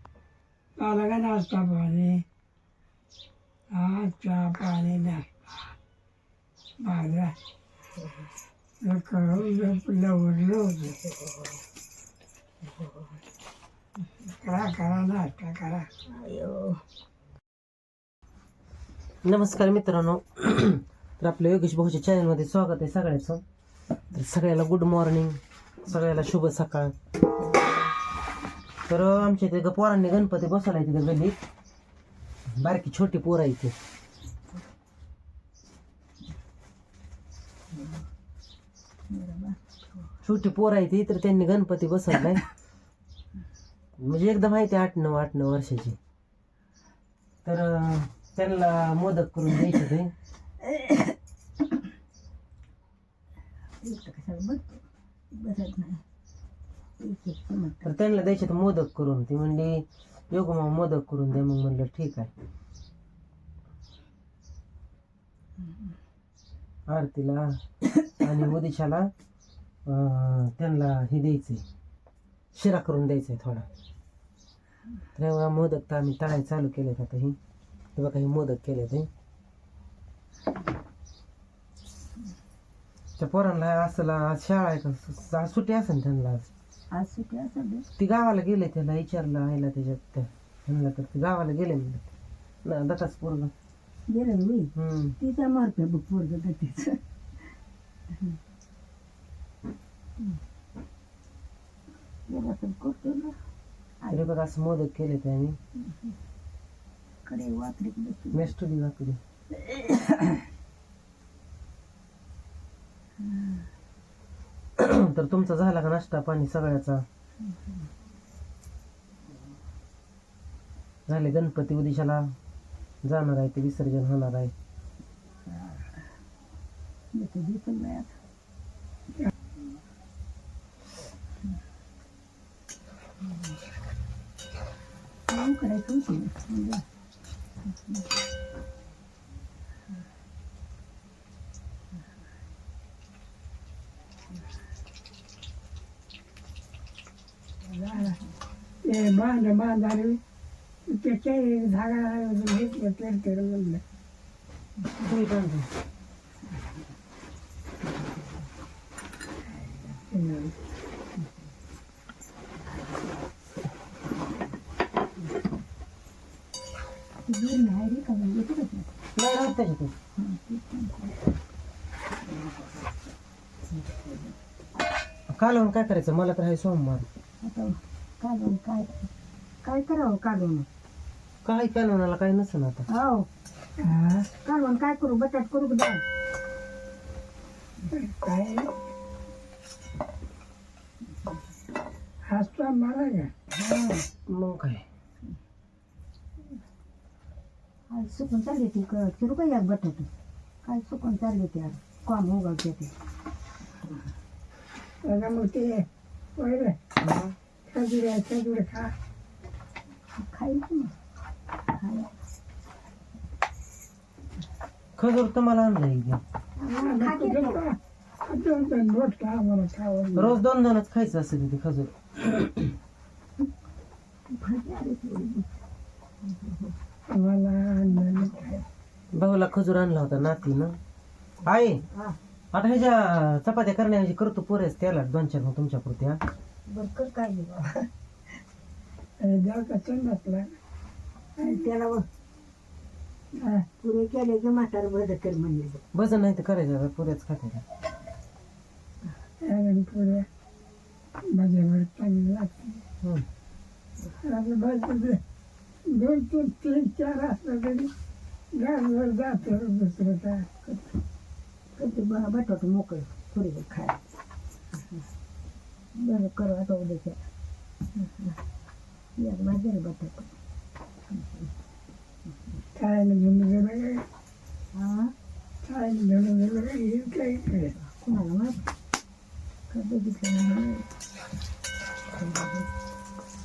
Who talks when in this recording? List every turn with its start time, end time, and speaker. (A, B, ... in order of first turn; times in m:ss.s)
0:00.8-0:02.2 A
0:03.7-0:05.3 A
0:06.8-0:07.4 A
0:08.8-0:11.0 A
0:14.4-0:15.9 A
0:16.1-0:16.8 B
0:19.2-0:23.4 C
0:24.1-0:26.9 C
0:28.9-0:31.4 C
0:32.6-0:33.7 C
0:39.1-0:39.6 B
0:40.2-0:42.4 C
0:44.0-0:46.0 C
0:47.4-0:50.1 C
0:50.7-0:51.1 B
0:53.8-0:56.0 B
0:57.0-0:58.0 B
0:57.8-1:02.3 C
1:06.9-1:07.6 C
1:08.2-1:09.1 C
1:09.9-1:11.6 C
1:12.5-1:13.7 C
1:15.2-1:17.4 C
1:18.0-1:19.1 C
1:23.2-1:26.5 C
1:26.9-1:27.9 B
1:28.0-1:32.1 C
1:32.6-1:33.5 C
1:34.1-1:37.0 B
1:34.8-1:35.2 C
1:42.3-1:43.4 B
1:44.1-1:45.6 C
1:45.8-1:46.1 B
1:47.2-1:48.5 B
1:48.3-1:49.2 C
1:49.6-1:50.4 B
1:54.8-1:57.0 C
2:01.1-2:02.3 C
2:03.0-2:04.5 C
2:07.1-2:08.1 B
2:15.3-2:16.8 B
2:27.7-2:28.2 B
2:28.8-2:30.2 A
2:30.9-2:33.8 A
2:35.0-2:35.7 C
2:40.1-2:40.5 A
2:47.3-2:48.9 B
2:49.2-2:49.9 C
2:50.2-2:51.2 B
2:53.8-2:54.3 B
2:55.3-2:57.1 C
2:57.4-2:59.1 B
2:59.6-3:00.7 B
3:01.4-3:02.9 C
3:02.9-3:03.3 B
3:03.8-3:04.2 A
3:04.3-3:06.0 B
3:07.9-3:08.7 A
3:12.3-3:13.3 A
3:13.6-3:14.1 B
3:14.3-3:14.8 C
3:17.9-3:20.1 B
3:20.6-3:22.9 B
3:25.0-3:26.8 A
3:27.0-3:27.3 C
3:27.7-3:28.9 A
3:30.2-3:31.0 B
3:31.7-3:32.1 B
3:35.0-3:36.2 C
3:36.6-3:37.6 B
3:36.8-3:40.4 A
3:40.2-3:42.5 C
3:44.3-3:45.5 B
3:46.2-3:46.7 B
3:47.1-3:48.5 A
3:48.2-3:48.6 B
3:49.1-3:50.8 C
3:51.4-3:51.8 C
3:51.9-3:52.2 B
3:52.5-3:56.2 C
3:56.7-3:57.9 B
3:59.2-4:00.5 A
4:01.4-4:02.1 B
4:03.3-4:03.7 A
4:03.8-4:05.8 B
4:05.9-4:07.6 C
4:09.4-4:10.3 A
4:11.3-4:12.8 A
4:14.2-4:15.2 A
4:15.9-4:17.9 A
4:18.5-4:20.6 A
4:21.8-4:24.0 B
4:26.0-4:27.2 B
4:28.0-4:28.4 B
4:29.2-4:30.3 B
4:32.8-4:34.0 A
4:34.7-4:35.1 B
4:35.6-4:37.7 A
4:37.8-4:38.7 B
4:39.7-4:40.9 B
4:42.2-4:42.7 B